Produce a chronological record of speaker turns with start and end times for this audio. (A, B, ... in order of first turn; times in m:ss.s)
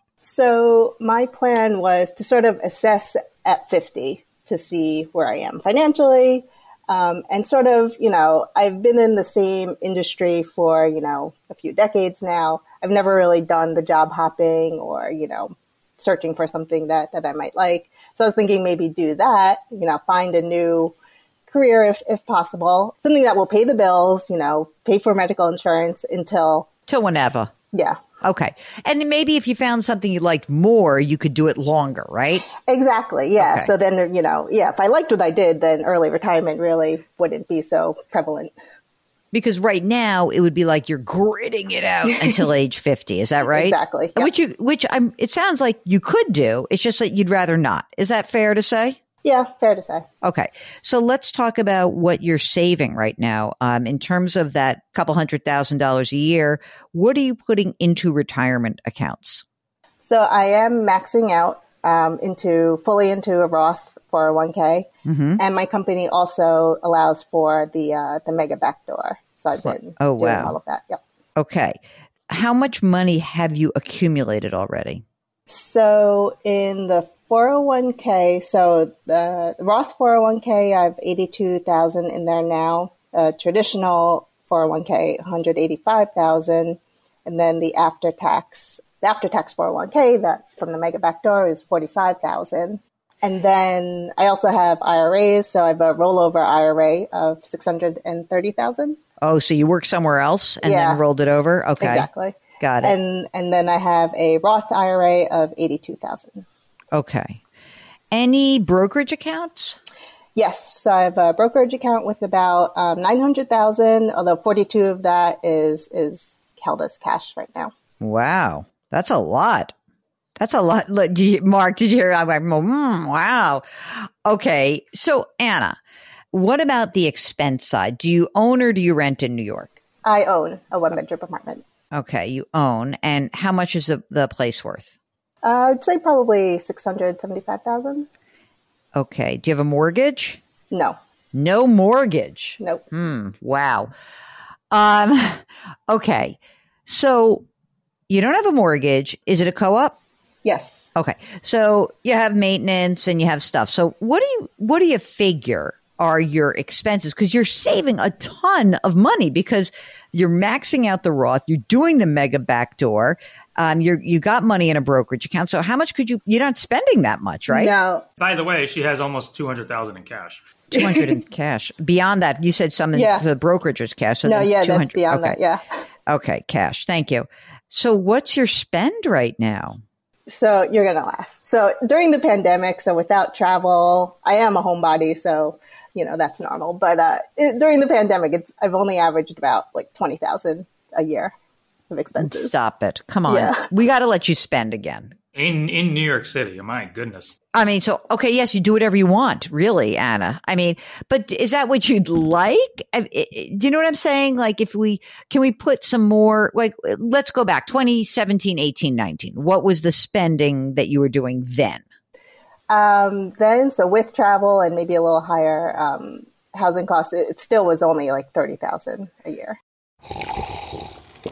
0:00.2-0:20.9 A
0:21.5-0:26.7 A
0:26.9-0:27.5 B
0:27.7-0:28.0 A
0:28.2-0:32.5 B
0:32.5-0:38.5 A
0:33.4-0:33.7 B
0:39.3-0:49.0 B
0:42.1-0:42.4 A
0:43.5-0:44.3 A
0:49.2-0:50.1 A
0:50.2-0:59.4 B
1:00.0-1:04.9 A
1:05.0-1:05.4 B
1:05.4-1:11.0 A
1:09.6-1:10.6 B
1:11.4-1:11.8 B
1:12.3-1:15.0 B
1:15.5-1:39.0 A
1:39.2-1:42.1 B
1:40.6-1:41.0 A
1:41.8-1:46.4 A
1:42.6-1:43.0 B
1:46.9-1:47.4 B
1:48.1-1:49.8 B
1:50.4-1:57.7 A
1:58.0-1:59.7 B
2:00.4-2:05.8 B
2:06.3-2:09.8 B
2:10.0-2:11.6 A
2:11.9-2:14.9 B
2:15.4-2:18.1 A
2:18.9-2:20.4 B
2:20.7-2:21.0 A
2:21.3-2:23.9 B
2:24.7-2:27.4 B
2:28.1-2:30.0 B
2:30.4-2:30.9 A
2:31.0-2:47.7 B
2:47.5-2:48.0 A
2:48.2-2:50.4 C
2:50.7-2:55.4 B
2:50.7-2:51.2 A
2:52.9-2:53.2 A
2:54.2-2:55.6 A
2:56.1-2:59.8 B
3:00.3-3:11.3 A
3:11.9-3:12.6 A
3:12.2-3:15.1 B
3:13.3-3:13.6 A
3:15.3-3:17.3 C
3:17.5-3:31.8 B
3:32.7-3:39.6 A